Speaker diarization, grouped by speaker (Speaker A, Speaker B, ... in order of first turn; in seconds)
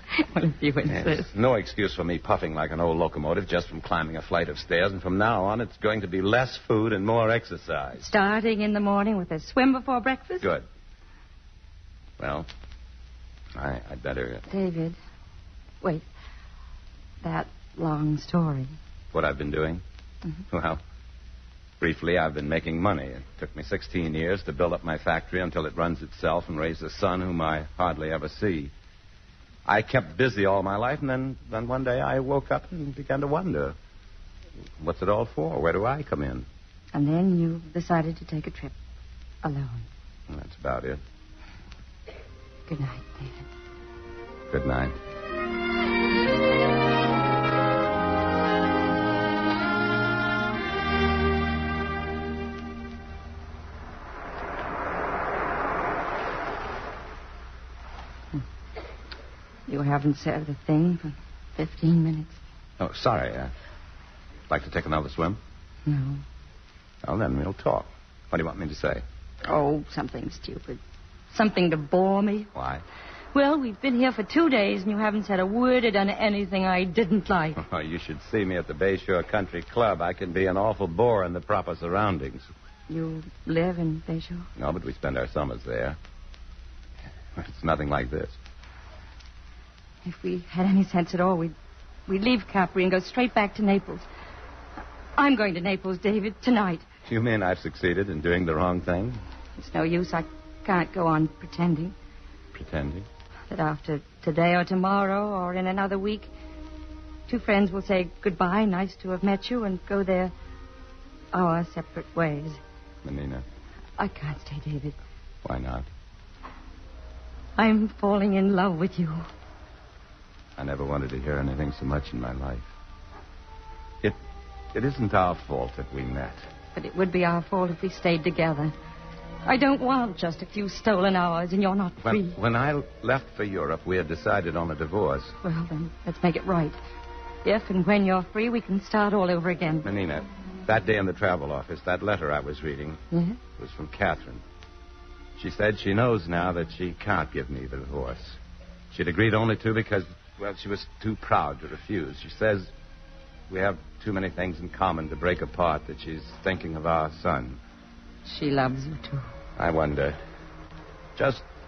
Speaker A: 0.1-1.3, 8.0-10.5, 14.5-15.0, 17.2-18.7, 36.9-38.7, 39.4-39.9, 42.7-43.5, 59.7-62.4, 65.8-66.2, 69.5-70.8, 71.3-72.5, 73.3-77.6, 82.9-84.5, 90.0-91.5, 92.1-94.0, 95.2-96.8, 99.6-101.9, 103.5-106.3, 107.3-110.3, 111.3-112.6, 114.0-115.0, 117.6-119.2, 126.7-128.7, 129.4-132.4, 135.4-136.8, 137.4-139.8, 143.1-143.4, 158.2-159.3
Speaker B: 0.9-8.1, 10.4-10.7, 12.2-12.5, 13.5-14.4, 19.1-19.8, 20.5-20.8, 21.8-28.7, 29.6-33.8, 34.8-36.5, 40.3-41.0, 44.5-45.0, 62.8-63.5, 64.5-65.4, 67.0-69.0, 72.5-72.8, 77.6-82.5, 84.5-86.0, 87.3-88.3, 97.0-99.2, 102.5-103.0, 113.0-113.4, 115.4-115.9, 120.6-122.7, 124.7-126.4, 132.0-135.3, 139.8-143.0, 143.6-144.4, 145.4-148.4, 148.9-152.7, 153.5-157.6, 159.6-160.2, 161.2-161.4